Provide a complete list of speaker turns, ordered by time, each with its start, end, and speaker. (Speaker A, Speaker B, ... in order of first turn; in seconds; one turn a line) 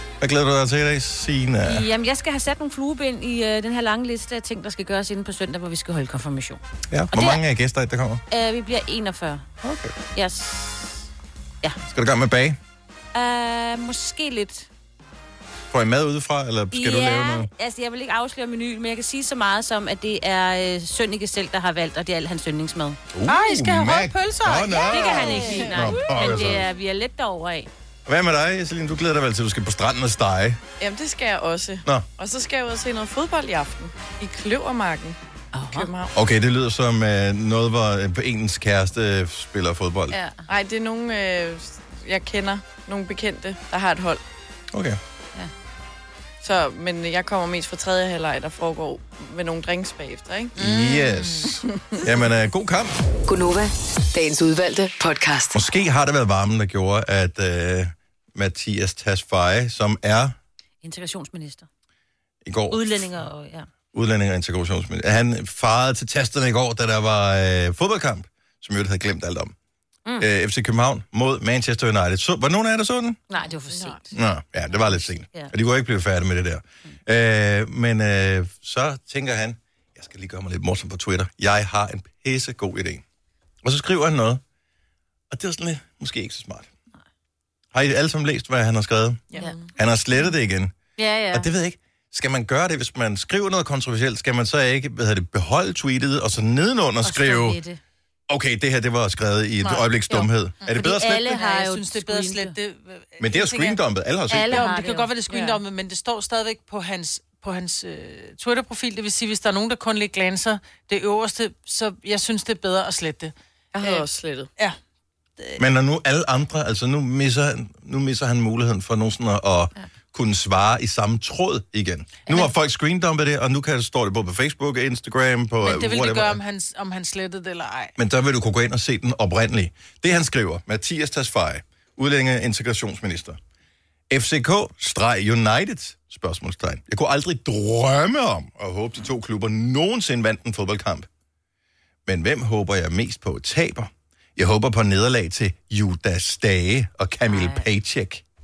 Speaker A: 0.2-1.9
Speaker B: 1.6-6.6
Speaker A: 6.9-8.2
Speaker B: 7.1-7.4
Speaker B: 8.3-9.4
Speaker A: 9.6-9.9
Speaker B: 10.2-11.1
Speaker A: 11.9-12.6
Speaker B: 13.1-14.7
Speaker A: 15.7-17.5
Speaker B: 16.7-23.0
Speaker A: 23.1-26.7
Speaker C: 23.2-26.3
Speaker B: 24.9-27.7
Speaker A: 28.1-30.6
Speaker D: 30.8-36.1
Speaker B: 35.5-35.9
Speaker A: 36.1-40.2
Speaker B: 40.1-40.5
Speaker D: 40.5-44.2
Speaker A: 44.7-45.0
Speaker D: 46.4-50.6
Speaker A: 50.6-52.9
Speaker C: 50.6-51.5
Speaker D: 51.6-52.0
Speaker E: 53.3-55.6
Speaker A: 55.5-60.4
Speaker B: 60.8-61.7
Speaker A: 62.4-62.9
Speaker B: 62.7-63.7
Speaker A: 63.9-69.5
Speaker A: 70.2-73.2
Speaker B: 73.3-74.1
Speaker D: 73.7-74.0
Speaker A: 74.1-83.0
Speaker B: 74.7-75.5
Speaker A: 83.6-84.4
Speaker A: 85.3-86.7
Speaker A: 87.7-89.2
Speaker D: 89.4-89.7
Speaker A: 89.8-90.8
Speaker B: 91.0-91.5
Speaker A: 91.3-97.6
Speaker B: 97.0-97.8
Speaker A: 98.3-101.3
Speaker C: 99.6-103.8
Speaker B: 100.8-102.6
Speaker A: 103.2-104.7
Speaker B: 104.3-105.1
Speaker C: 104.3-114.8
Speaker D: 105.3-105.6
Speaker D: 113.7-114.5
Speaker A: 115.6-126.4
Speaker C: 125.6-128.0
Speaker A: 128.0-133.4
Speaker A: 134.1-141.1
Speaker A: 142.1-148.2
Speaker B: 147.3-147.7